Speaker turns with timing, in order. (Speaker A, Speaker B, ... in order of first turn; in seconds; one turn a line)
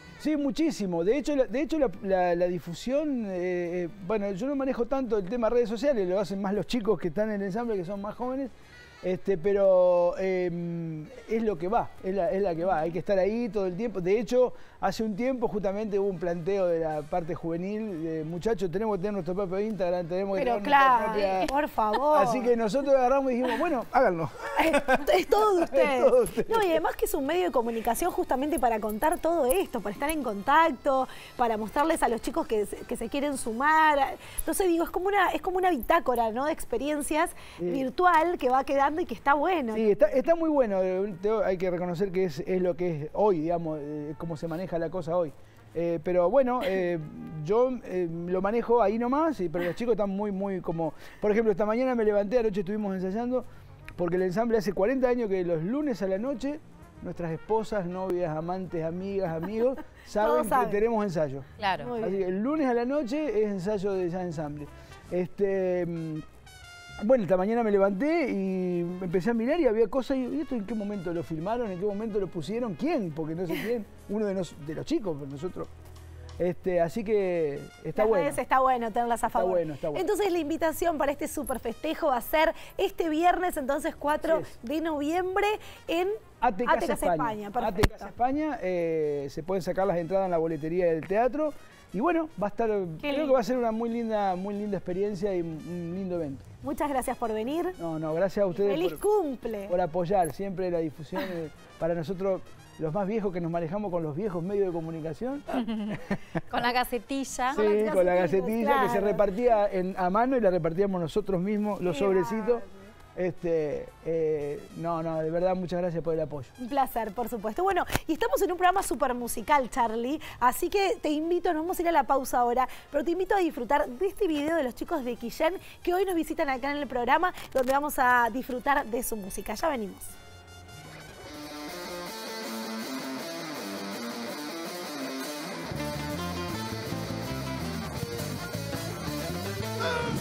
Speaker A: 0.2-21.5
Speaker B: 20.3-22.5
Speaker A: 22.1-26.8
Speaker B: 24.6-40.0
Speaker A: 37.6-37.8
Speaker A: 39.7-53.5
Speaker A: 54.0-66.2
Speaker B: 60.1-60.8
Speaker C: 61.6-61.9
Speaker B: 61.8-62.2
Speaker A: 67.0-75.7
Speaker A: 76.4-78.4
Speaker B: 77.9-88.1
Speaker A: 79.3-80.1
Speaker A: 84.2-84.5
Speaker A: 86.4-96.4
Speaker B: 93.0-93.4
Speaker B: 96.6-97.8
Speaker A: 97.8-99.0
Speaker B: 98.5-99.7
Speaker A: 99.7-106.3
Speaker C: 105.5-107.6
Speaker A: 107.5-112.6
Speaker B: 107.5-109.3
Speaker B: 111.8-112.7
Speaker A: 113.2-116.5
Speaker B: 116.6-130.2